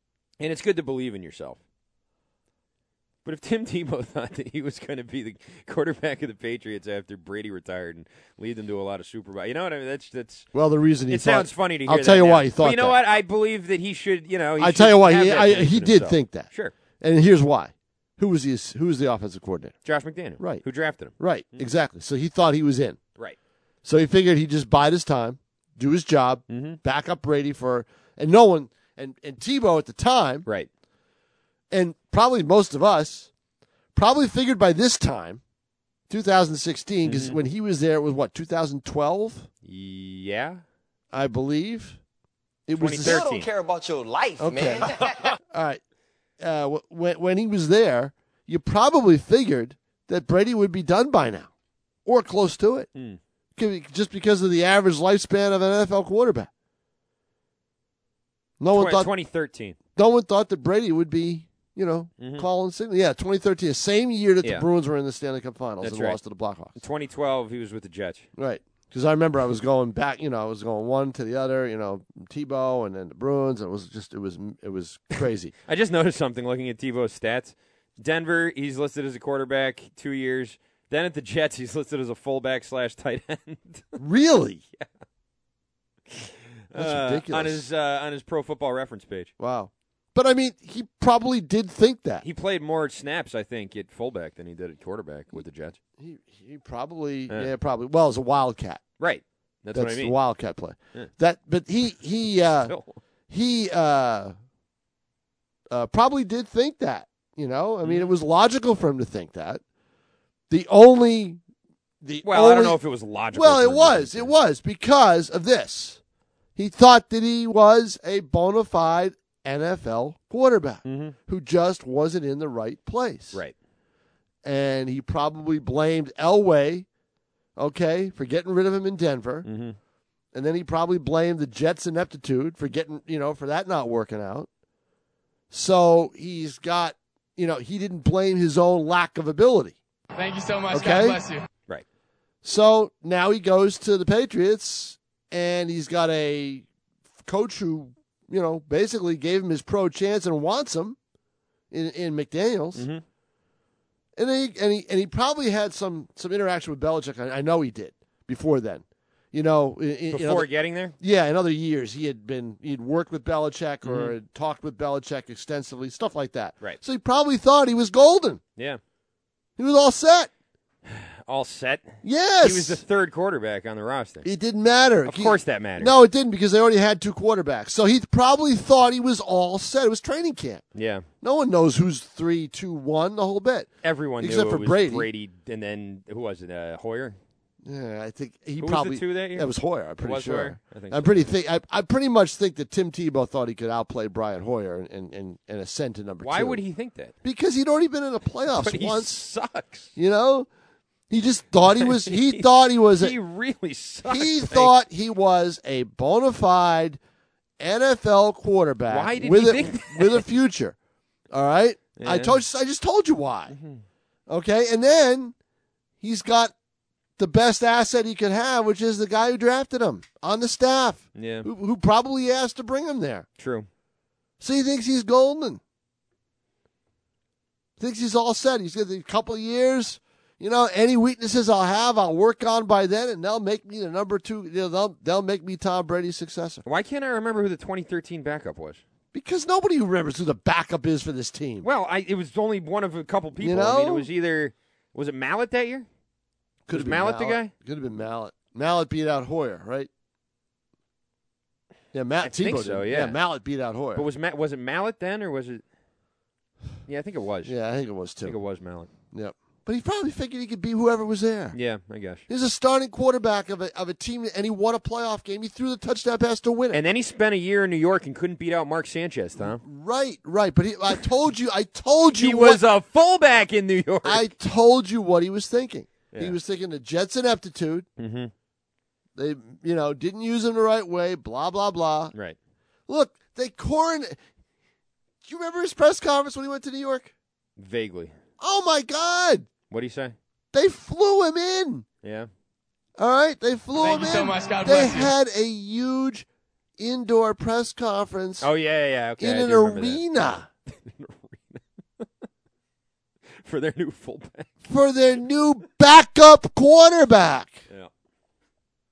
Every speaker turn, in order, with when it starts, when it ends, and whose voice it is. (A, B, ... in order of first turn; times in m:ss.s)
0:00.4-0:01.6 A
0:03.2-0:10.5 A
0:10.5-0:13.0 B
0:11.1-0:16.7 A
0:14.6-0:16.5 B
0:17.0-0:19.8 B
0:19.8-0:21.7 A
0:21.2-0:23.0 B
0:23.8-0:30.5 B
0:26.5-0:26.8 A
0:31.7-0:33.3 B
0:34.0-0:35.4 B
0:36.1-0:39.5 B
0:37.0-0:37.4 A
0:39.6-0:40.6 A
0:41.1-0:42.0 B
0:42.7-0:43.3 B
0:42.8-0:43.5 A
0:43.0-0:45.3 C
0:44.4-0:45.8 B
0:46.4-0:51.5 B
0:52.0-0:52.9 B
0:53.6-0:56.5 B
0:58.6-0:59.1 B
0:58.7-0:59.8 A
1:00.0-1:06.7 B
1:02.2-1:02.5 A
1:05.8-1:06.2 A
1:06.8-1:08.3 A
1:08.4-1:15.5 B
1:15.7-1:24.0 A
1:24.0-1:24.6 B
1:26.1-1:29.3 A
1:26.8-1:27.6 B
1:29.4-1:32.2 B
1:32.2-1:35.8 A
1:36.0-1:38.8 B
1:39.0-1:40.2 A
1:39.8-1:42.7 B
1:42.7-1:43.0 A
1:43.3-1:44.4 B
1:45.7-1:49.6 B
1:47.8-1:48.2 A
1:50.5-1:51.4 B
1:52.0-1:52.8 B
1:52.2-1:54.3 A
1:53.3-1:56.0 B
1:56.6-2:03.4 B
2:00.8-2:01.2 A
2:04.4-2:06.9 B
2:07.6-2:09.5 B
2:09.4-2:09.8 A
2:10.3-2:14.5 B
2:15.5-2:19.8 B
2:20.2-2:21.4 D
2:20.7-2:21.2 B
2:22.4-2:26.7 B
2:27.3-2:31.0 B
2:31.7-2:32.9 B
2:32.8-2:33.0 A
2:34.2-2:40.5 B
2:40.1-2:41.0 A
2:41.0-2:48.4 B
2:43.8-2:44.2 A
2:49.6-2:50.3 B
2:50.9-2:54.3 A
2:52.0-2:52.8 B
2:54.2-3:00.6 B
2:55.1-2:56.0 A
3:00.8-3:01.0 A
3:01.2-3:05.1 B
3:03.8-3:07.2 A
3:07.6-3:16.6 B
3:08.6-3:09.5 A
3:10.0-3:11.1 A
3:16.2-3:17.1 A
3:17.2-3:19.1 B
3:18.5-3:19.9 A
3:20.0-3:20.5 B
3:21.1-3:23.1 B
3:21.8-3:22.4 A
3:23.0-3:24.8 A
3:24.1-3:27.0 B
3:27.6-3:30.8 B
3:28.9-3:30.3 A
3:31.3-3:33.6 B
3:32.0-3:32.4 A
3:33.5-3:33.8 A
3:34.3-3:35.4 B
3:36.0-3:36.5 B
3:37.2-3:43.3 B
3:41.2-3:41.5 A
3:43.4-3:43.7 A
3:44.4-3:45.6 B
3:47.8-3:56.6 B
3:56.6-3:58.8 A
3:59.1-4:01.7 B
4:01.6-4:05.9 A
4:03.4-4:04.1 B
4:06.7-4:09.9 B
4:06.7-4:07.5 A
4:11.9-4:14.1 B
4:12.2-4:13.2 A
4:14.0-4:15.6 A
4:16.9-4:17.5 A
4:17.4-4:18.4 B
4:18.2-4:18.9 A
4:19.1-4:21.6 B
4:21.5-4:22.2 A
4:22.3-4:26.8 B
4:26.7-4:29.6 A
4:29.4-4:32.6 B
4:32.1-4:34.3 A
4:34.0-4:37.9 B
4:38.0-4:38.3 A
4:39.2-4:42.1 B
4:42.9-4:44.2 B
4:45.2-4:47.1 B
4:47.6-4:48.1 A
4:48.4-4:49.5 B
4:49.7-4:50.2 A
4:50.5-4:51.9 B
4:52.0-4:52.3 A
4:53.0-4:56.3 B
4:53.8-4:55.1 D
4:56.8-4:58.5 B
4:58.4-5:02.1 A
4:59.2-5:00.5 B
5:03.4-5:04.5 A
5:04.7-5:07.6 B